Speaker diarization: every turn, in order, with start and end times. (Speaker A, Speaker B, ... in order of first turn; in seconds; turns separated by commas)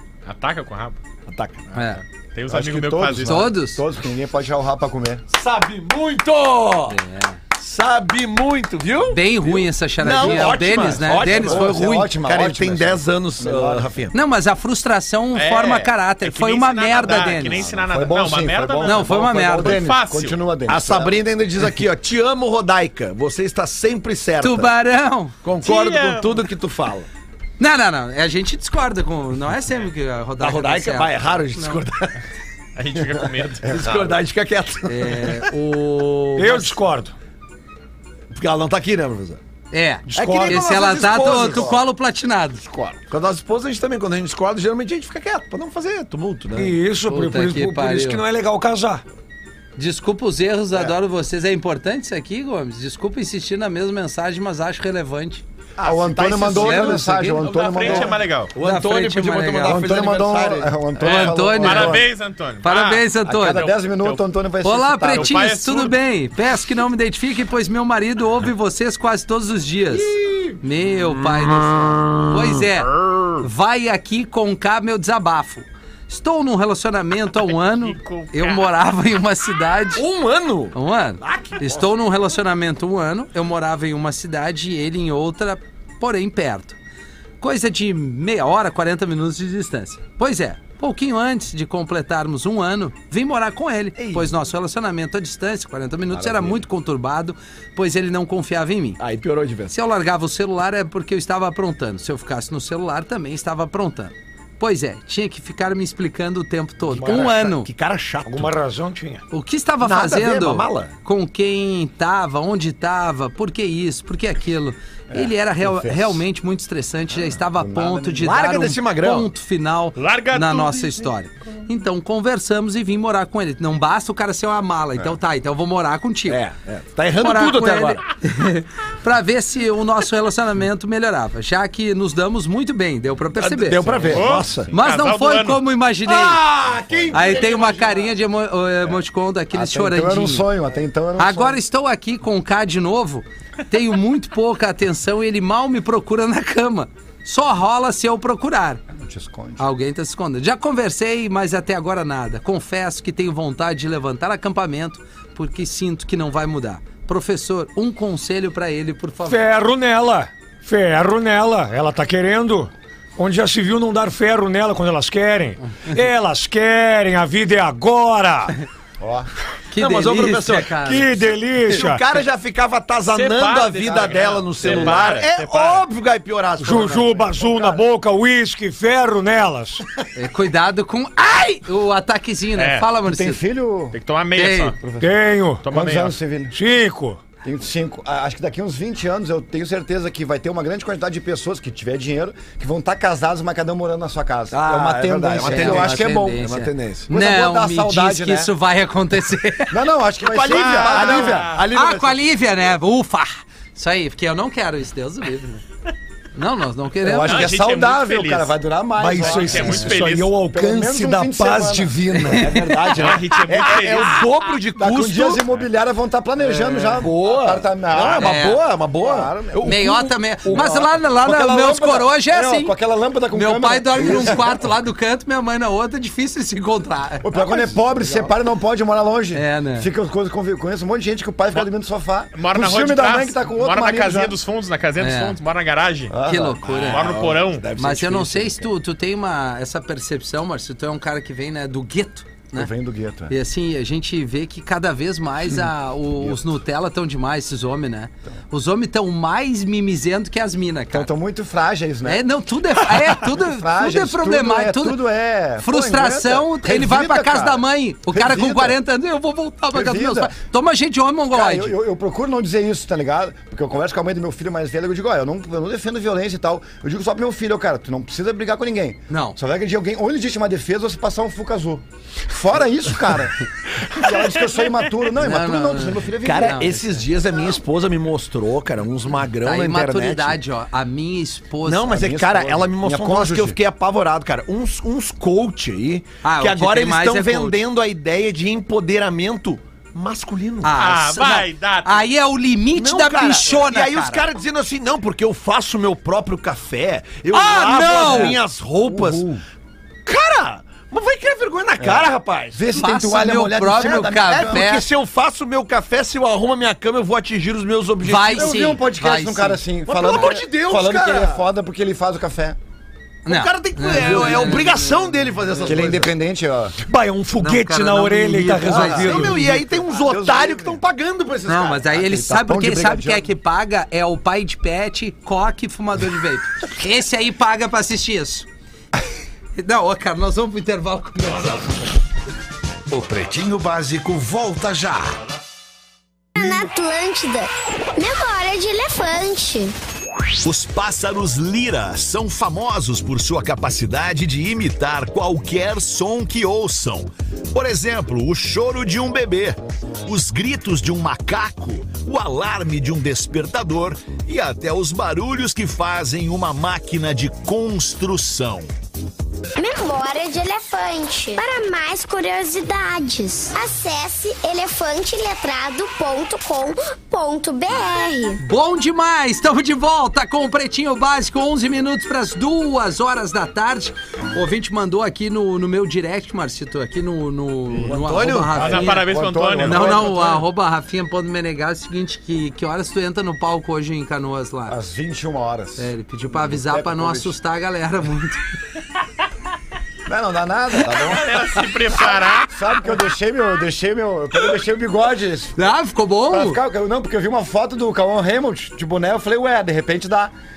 Speaker A: 0.2-1.0, Speaker B: 1.3-1.7, Speaker A: 1.7-3.5, Speaker C: 1.7-2.0, Speaker D: 2.5-5.2, Speaker C: 3.2-3.8, Speaker B: 5.3-7.0, Speaker C: 6.9-7.4, Speaker B: 7.5-14.1, Speaker C: 9.0-12.1, Speaker D: 10.1-13.9, Speaker C: 14.1-17.6, Speaker A: 15.3-20.4, Speaker D: 17.1-21.2, Speaker C: 18.8-19.8, Speaker B: 20.7-24.7, Speaker C: 24.4-25.4, Speaker B: 25.4-27.1, Speaker A: 25.6-26.4, Speaker C: 27.6-31.8, Speaker B: 30.4-32.2, Speaker A: 32.8-33.7, Speaker D: 33.6-34.1, Speaker B: 33.6-35.5, Speaker C: 34.9-36.8, Speaker E: 36.4-37.1, Speaker B: 38.3-39.4, Speaker C: 39.7-42.6, Speaker E: 40.1-40.7, Speaker B: 40.1-41.8, Speaker D: 41.2-41.8, Speaker D: 42.6-43.0, Speaker B: 43.1-46.7, Speaker E: 46.5-49.0, Speaker C: 47.1-48.2, Speaker C: 49.8-55.4, Speaker B: 55.8-57.1, Speaker D: 55.8-58.2, Speaker C: 56.4-58.0, Speaker A: 57.4-58.5, Speaker B: 58.5-60.8, Speaker C: 58.6-59.9, Speaker D: 59.6-62.1, Speaker C: 61.0-62.1, Speaker A: 61.0-64.2, Speaker C: 62.6-63.7, Speaker D: 63.2-65.4, Speaker C: 64.6-80.0, Speaker A: 65.1-66.0, Speaker B: 69.9-72.6, Speaker A: 77.5-78.7, Speaker B: 79.9-81.9, Speaker C: 80.7-86.8, Speaker C: 87.4-99.0, Speaker B: 94.0-94.3, Speaker B: 96.1-96.6, Speaker B: 99.0-99.7, Speaker C: 99.7-107.7, Speaker E: 106.9-107.3, Speaker B: 107.0-108.5, Speaker E: 108.2-109.2, Speaker C: 109.3-126.4, Speaker B: 109.8-110.9, Speaker D: 115.1-116.0, Speaker D: 117.5-118.2, Speaker B: 118.2-119.3, Speaker A: 120.0-121.1, Speaker B: 126.3-128.0, Speaker C: 127.2-136.4, Speaker B: 133.4-134.7, Speaker A: 134.1-135.6, Speaker B: 136.1-138.1, Speaker D: 136.9-137.2, Speaker C: 137.1-140.5, Speaker D: 139.5-141.6, Speaker C: 141.2-148.8, Speaker D: 148.9-149.7, Speaker C: 149.6-159.4, Speaker E: 159.2-168.6, Speaker D: 169.0-169.3, Speaker C: 169.7-171.1, Speaker B: 169.8-170.8, Speaker E: 170.8-172.1, Speaker B: 171.7-177.1, Speaker A: 173.1-175.8, Speaker D: 174.6-175.0, Speaker E: 176.6-179.8, Speaker D: 176.8-177.8, Speaker C: 180.1-183.4, Speaker A: 182.6-182.9, Speaker D: 183.0-184.0, Speaker A: 183.9-184.8, Speaker C: 184.3-184.7, Speaker D: 184.8-186.6, Speaker E: 185.0-185.7, Speaker A: 185.6-186.2, Speaker E: 186.5-187.2, Speaker D: 187.4-196.5, Speaker B: 194.5-197.1, Speaker C: 195.4-199.8, Speaker D: 197.1-198.5, Speaker D: 199.7-201.6, Speaker B: 200.2-202.3, Speaker A: 200.5-201.6, Speaker C: 201.6-205.6, Speaker C: 206.3-207.5, Speaker D: 207.0-212.0, Speaker A: 207.2-208.5, Speaker E: 209.0-212.8, Speaker A: 209.2-210.3, Speaker C: 212.2-213.1, Speaker B: 212.3-215.4, Speaker A: 212.9-214.4, Speaker D: 214.8-218.4, Speaker B: 216.4-220.9, Speaker C: 218.1-218.6, Speaker D: 219.0-219.7, Speaker C: 219.6-222.7, Speaker D: 220.5-224.7, Speaker C: 223.3-227.7, Speaker D: 227.2-234.3, Speaker B: 228.0-228.3, Speaker C: 229.3-229.9, Speaker A: 232.3-236.2, Speaker C: 235.0-235.4, Speaker D: 236.1-236.6, Speaker C: 236.2-237.1, Speaker B: 236.6-238.7, Speaker A: 236.9-237.7, Speaker C: 237.8-242.7, Speaker D: 242.5-243.3, Speaker C: 243.3-251.1, Speaker D: 246.2-246.4, Speaker D: 250.9-252.2, Speaker C: 252.0-255.0, Speaker D: 252.9-258.8, Speaker C: 255.6-261.8, Speaker D: 259.7-260.3, Speaker D: 261.3-276.7, Speaker C: 269.1-269.4, Speaker C: 275.2-277.0, Speaker B: 276.2-280.4, Speaker C: 279.4-282.0, Speaker B: 281.6-290.8, Speaker D: 281.8-283.6, Speaker C: 286.2-287.6, Speaker C: 290.6-294.2, Speaker A: 290.8-292.1, Speaker B: 292.7-299.3, Speaker C: 297.3-298.4, Speaker D: 297.8-299.4, Speaker B: 300.1-308.8, Speaker D: 301.8-304.4, Speaker C: 302.7-304.9, Speaker C: 308.0-309.6, Speaker D: 308.3-312.6, Speaker B: 309.9-311.4, Speaker C: 313.2-315.9, Speaker B: 313.3-316.1, Speaker D: 314.0-314.6, Speaker D: 315.7-316.8, Speaker E: 316.8-319.5, Speaker C: 317.4-319.5, Speaker B: 318.7-321.9, Speaker D: 318.7-320.8, Speaker C: 321.5-328.5, Speaker D: 321.9-323.3, Speaker C: 329.5-331.8, Speaker F: 332.9-335.2, Speaker G: 336.3-339.7, Speaker F: 340.4-358.7, Speaker G: 359.6-368.4, Speaker C: 368.4-379.1, Speaker B: 377.8-378.9, Speaker D: 378.5-380.4, Speaker A: 378.6-380.3, Speaker C: 379.6-384.8, Speaker D: 384.7-387.3, Speaker C: 385.8-388.5, Speaker D: 390.1-395.7, Speaker A: 390.8-392.6, Speaker C: 395.6-396.6, Speaker D: 396.3-400.3